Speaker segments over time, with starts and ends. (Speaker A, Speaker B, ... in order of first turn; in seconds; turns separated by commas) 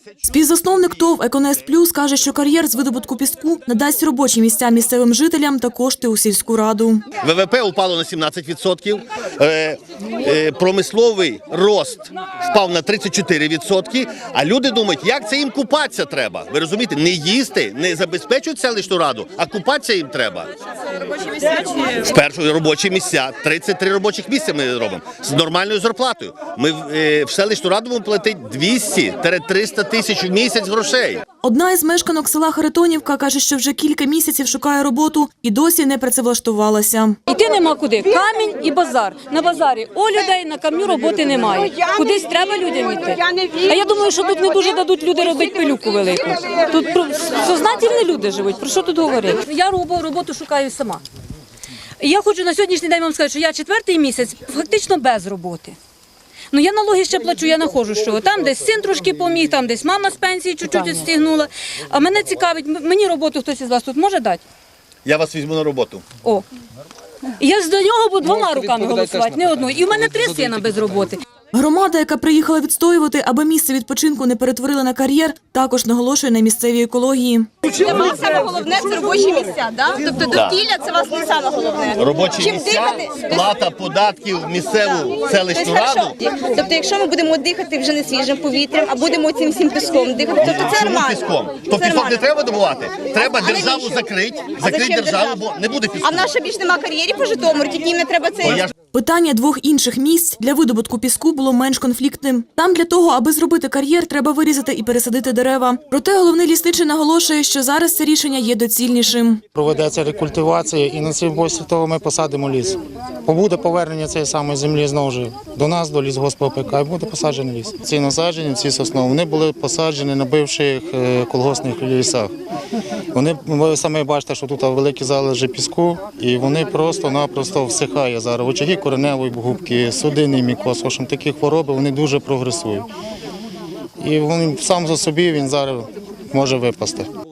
Speaker A: 0.2-7.1, Speaker B: 7.2-20.5, Speaker B: 21.4-31.2, Speaker A: 31.4-37.2, Speaker C: 37.3-51.0, Speaker C: 52.0-55.8, Speaker C: 56.5-64.4, Speaker B: 65.0-66.0, Speaker C: 67.4-71.2, Speaker A: 71.5-77.5, Speaker D: 77.6-83.4, Speaker B: 80.3-80.6, Speaker B: 82.0-86.2, Speaker D: 85.5-91.2, Speaker B: 90.4-96.3, Speaker D: 91.8-92.3, Speaker D: 93.2-94.1, Speaker D: 94.6-95.4, Speaker D: 96.0-98.7, Speaker B: 98.4-98.7, Speaker A: 98.9-109.4, Speaker E: 109.5-122.3, Speaker E: 123.1-132.9, Speaker E: 134.0-137.1